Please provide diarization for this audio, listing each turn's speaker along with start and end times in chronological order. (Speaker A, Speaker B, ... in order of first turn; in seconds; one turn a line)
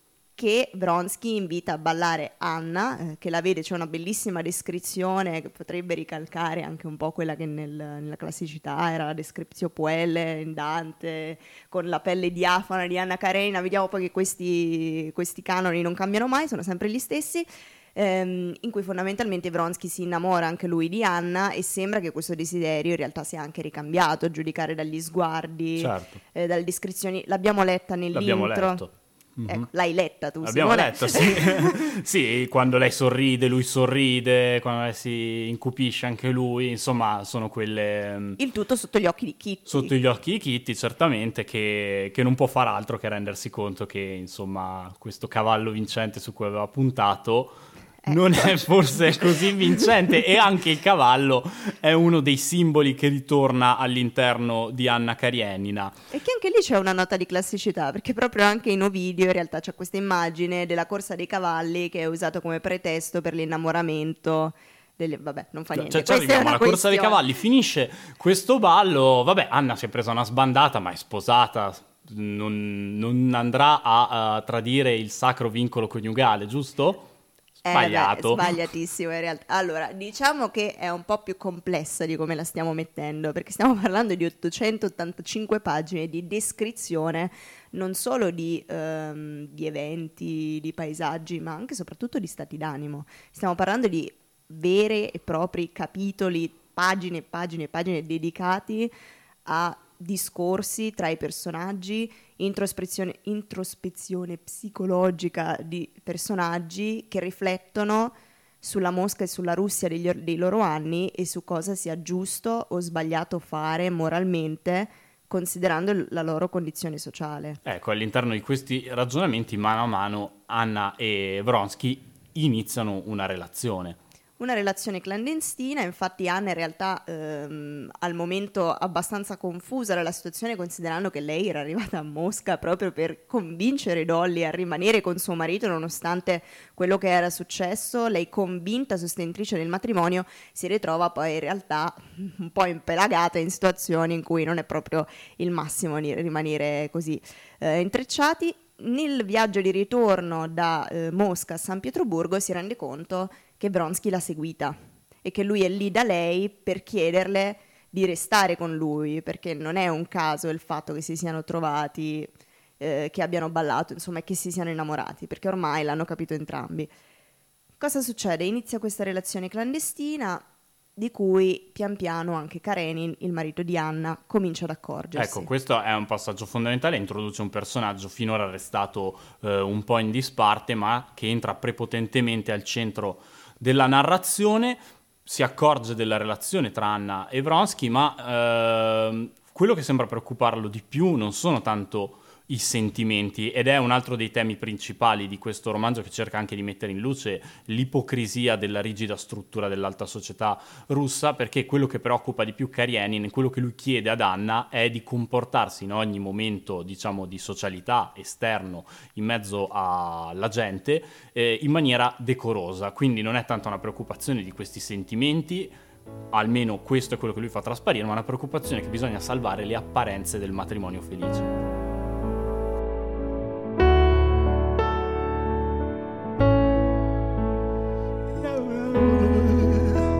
Speaker A: 0.3-28.8
Speaker B: 25.8-26.2
Speaker B: 28.1-29.7
Speaker A: 29.4-31.9
Speaker B: 30.4-38.4
Speaker A: 38.4-39.9
Speaker B: 39.7-56.0
Speaker A: 48.0-49.4
Speaker A: 56.1-67.2
Speaker B: 65.7-77.1
Speaker A: 77.6-98.9
Speaker B: 77.7-78.5
Speaker A: 99.4-117.6
Speaker B: 117.6-124.0
Speaker A: 124.4-166.9
Speaker A: 167.8-170.4
Speaker A: 170.9-175.5
Speaker B: 175.2-215.7
Speaker B: 216.3-221.5